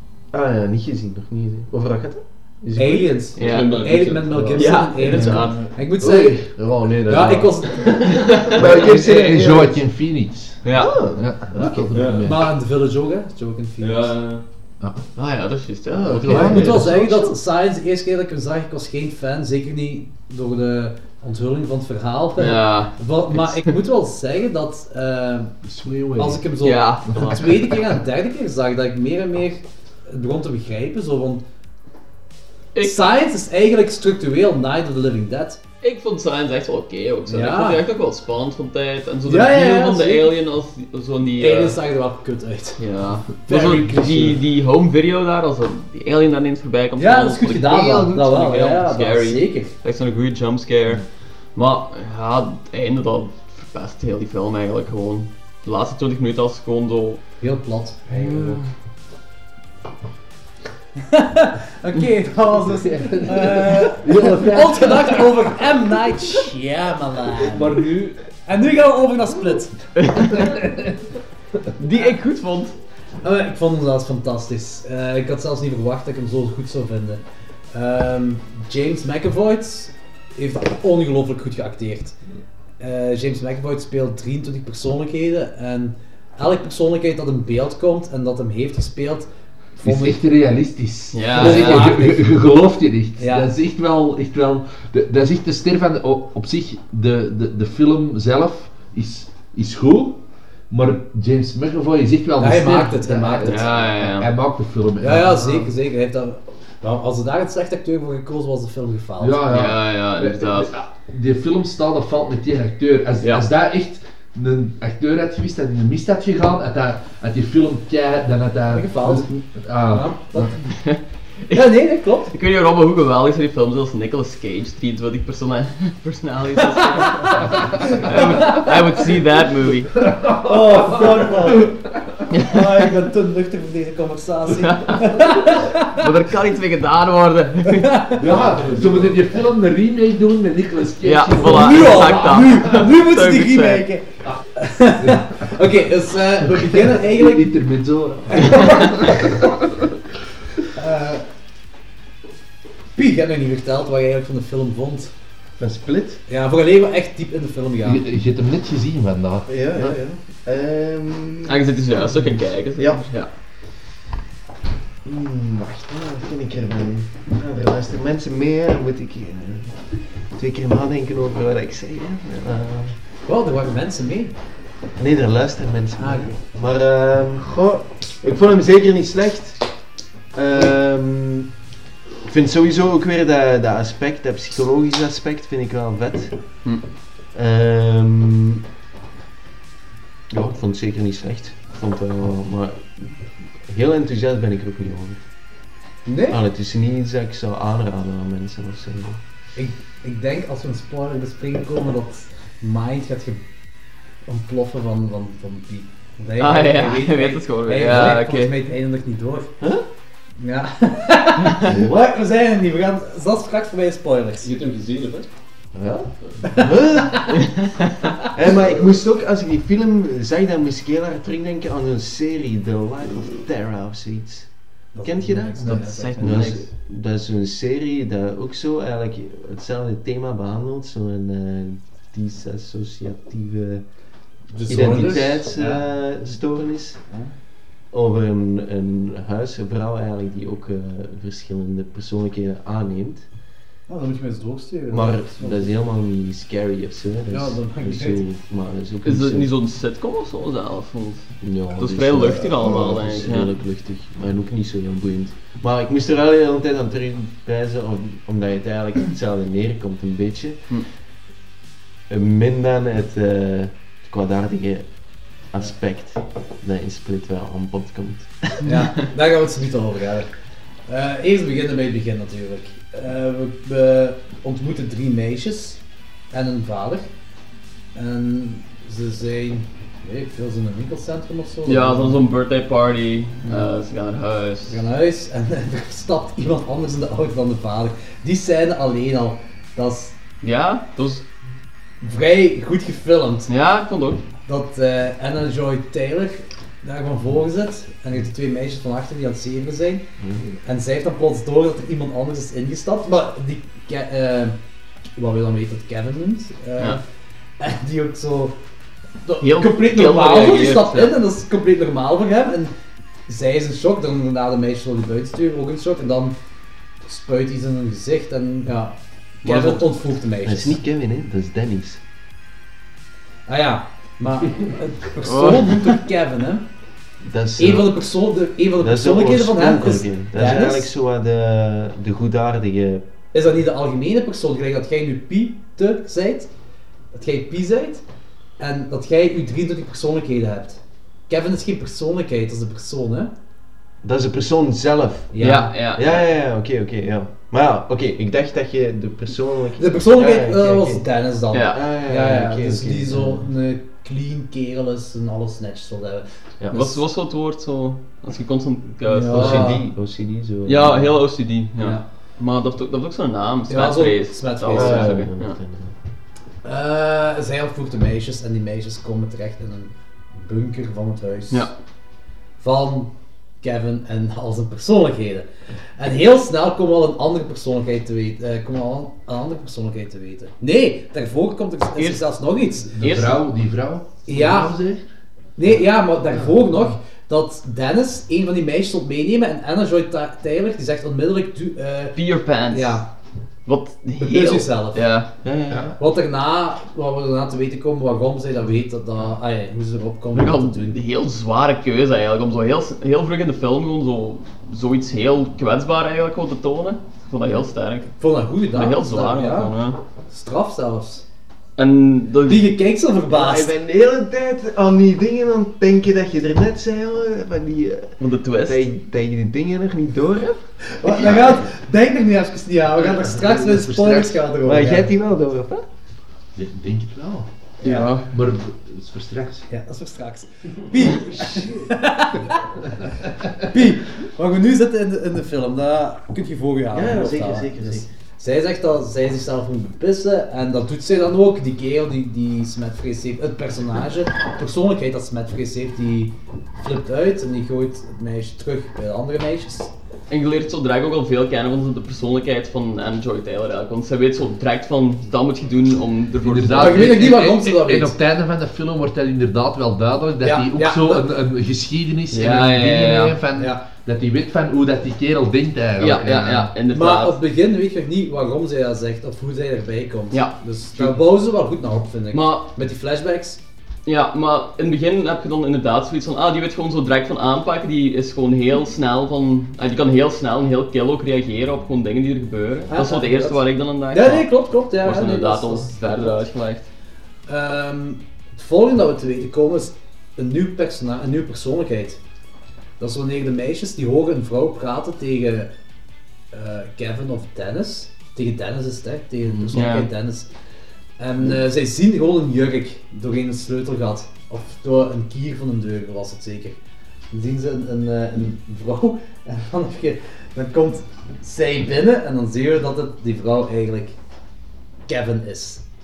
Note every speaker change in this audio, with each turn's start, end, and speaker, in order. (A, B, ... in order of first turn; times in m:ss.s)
0:00.3-0:03.2 A
0:02.7-0:06.4 B
0:03.4-0:04.0 C
0:03.4-0:04.6 D
0:04.3-0:04.6 E
0:04.5-0:05.6 C
0:05.1-0:09.8 A
0:05.4-0:06.4 E
0:07.1-0:08.0 B
0:08.1-0:08.6 C
0:08.6-0:12.5 E
0:10.6-0:10.9 C
0:10.7-0:12.0 A
0:11.9-0:12.3 D
0:12.2-0:14.2 B
0:13.8-0:14.4 D
0:15.2-0:16.6 C
0:15.9-0:17.3 A
0:16.1-0:17.0 E
0:16.3-0:25.5 B
0:22.4-0:23.7 C
0:25.6-0:26.5 E
0:26.2-0:31.4 B
0:26.6-0:27.4 C
0:27.1-0:27.7 E
0:32.7-0:33.0 C
0:32.8-0:35.6 B
0:35.8-0:41.8 C
0:37.3-0:37.8 B
0:39.3-0:40.4 B
0:41.4-0:42.8 B
0:42.8-0:51.0 C
0:43.4-0:44.4 B
0:47.0-0:49.7 B
0:51.6-0:57.2 C
0:57.4-0:58.4 B
0:58.2-0:58.6 E
0:58.3-0:58.6 C
1:01.0-1:07.9 B
1:02.6-1:05.4 E
1:07.3-1:08.2 E
1:08.4-1:09.7 B
1:10.0-1:10.6 C
1:10.4-1:10.9 E
1:11.8-1:12.7 C
1:13.2-1:17.2 B
1:17.7-1:22.2 B
1:22.8-1:30.2 B
1:29.8-1:45.7 E
1:31.1-1:32.0 C
1:31.4-1:32.4 B
1:33.2-1:33.5 B
1:42.4-1:43.7 B
1:43.4-1:44.3 C
1:45.0-1:49.5 B
1:49.2-2:00.5 E
1:49.5-1:50.7 C
1:58.7-1:59.3 B
1:59.8-2:00.7 B
2:00.7-2:01.7 C
2:01.5-2:02.3 B
2:02.3-2:10.0 C
2:07.9-2:08.7 B
2:10.0-2:12.2 E
2:10.4-2:16.0 B
2:14.6-2:18.1 C
2:17.8-2:18.2 B
2:18.2-2:22.2 E
2:18.4-2:19.2 D
2:21.0-2:23.8 C
2:21.4-2:27.6 B
2:26.6-2:29.8 E
2:28.3-2:29.2 B
2:30.7-2:31.2 B
2:33.0-2:35.1 B
2:35.6-2:36.2 A
2:36.3-2:38.0 B
2:37.8-2:39.5 E
2:39.5-2:42.2 A
2:41.4-2:43.3 C
2:42.8-2:43.1 A
2:45.0-2:52.9 A
2:53.2-2:54.3 B
2:55.0-2:59.6 A
2:56.0-2:56.4 B
3:00.3-3:01.5 A
3:02.2-3:06.6 A
3:07.3-3:08.6 A
3:10.3-3:15.2 A
3:16.0-3:16.4 B
3:16.3-3:19.2 A
3:19.6-3:23.4 B
3:24.2-3:29.5 B
3:26.4-3:28.6 C
3:30.4-3:34.5 B
3:31.6-3:32.0 A
3:34.4-3:35.3 D
3:35.7-3:37.5 A
3:38.3-3:53.8 A
3:44.9-3:46.4 B
3:45.6-3:46.6 C
3:54.5-3:55.8 B
3:54.6-3:57.0 A
3:57.9-4:03.2 A
4:03.9-4:05.8 B
4:04.9-4:09.5 A
4:07.3-4:08.2 B
4:09.0-4:13.5 C
4:11.4-4:20.6 A
4:22.1-4:24.9 A
4:25.5-4:28.5 A
4:28.6-4:30.3 B
4:30.9-4:35.8 B
4:36.3-4:37.1 B
4:37.9-4:42.2 B
4:41.6-4:44.8 C
4:44.7-4:50.2 B
4:50.4-4:51.2 C
4:52.0-4:53.5 B
4:53.5-4:54.2 C
4:54.4-5:00.0 B
5:00.2-5:00.5 A
5:00.6-5:04.6 B
5:05.2-5:07.0 B
5:07.6-5:08.6 B
5:09.2-5:12.7 B
5:09.4-5:11.2 C
5:13.3-5:16.4 B
5:17.0-5:20.8 B
5:19.4-5:19.9 C
5:20.4-5:22.0 A
5:23.5-5:26.7 B
5:25.3-5:26.0 C
5:27.2-5:28.0 A
5:27.6-5:30.9 B
5:28.8-5:33.0 A
5:33.3-5:36.5 B
5:37.1-5:38.0 B
5:38.6-5:43.3 B
5:44.0-5:51.1 A
5:45.3-5:45.7 B
5:45.4-5:46.2 C
5:49.8-5:56.2 B
5:51.5-5:51.8 C
5:51.7-5:53.4 A
5:56.6-5:57.0 A
5:56.7-5:59.7 C
5:59.0-5:59.8 B
5:59.3-6:01.1 A
6:00.6-6:05.6 C
6:01.8-6:02.0 B
6:03.7-6:05.1 B
6:04.7-6:05.9 A
6:06.6-6:11.7 B
6:12.6-6:23.2 B
6:22.0-6:22.2 C
6:23.0-6:25.0 E
6:23.0-6:23.4 C
6:24.2-6:24.7 B
6:25.6-6:32.2 B
6:32.1-6:33.0 C
6:32.7-6:33.0 B
6:33.6-6:35.3 C
6:34.2-6:35.1 B
6:35.4-6:36.0 A
6:36.0-6:41.0 B
6:40.3-6:48.1 C
6:48.2-6:49.7 B
6:48.7-6:50.0 C
6:50.3-6:51.2 B
6:51.8-6:52.8 C
6:52.5-6:53.7 B
6:53.3-6:58.1 A
6:58.2-6:58.8 C
6:58.6-7:00.6 A
7:00.9-7:05.1 B
7:01.2-7:01.5 A
7:02.9-7:04.4 E
7:04.6-7:05.8 A
7:06.5-7:07.5 E
7:07.8-7:08.1 B
7:07.8-7:08.3 C
7:08.0-7:09.6 E
7:09.7-7:12.6 B
7:13.7-7:29.9 B
7:16.9-7:18.0 A
7:30.3-7:37.3 C
7:36.4-7:46.7 E
7:36.7-7:38.2 B
7:40.4-7:41.3 B
7:42.3-7:43.4 C
7:43.6-7:43.8 B
7:46.0-7:47.4 C
7:46.9-7:53.6 B
7:50.3-7:51.1 C
7:52.3-7:52.7 C
7:54.0-8:06.9 C
8:02.9-8:06.3 B
8:07.5-8:12.2 B
8:13.0-8:15.7 B
8:16.5-8:20.5 B
8:19.7-8:20.1 C
8:21.2-8:26.8 B
8:27.3-8:34.2 B
8:35.1-8:35.8 B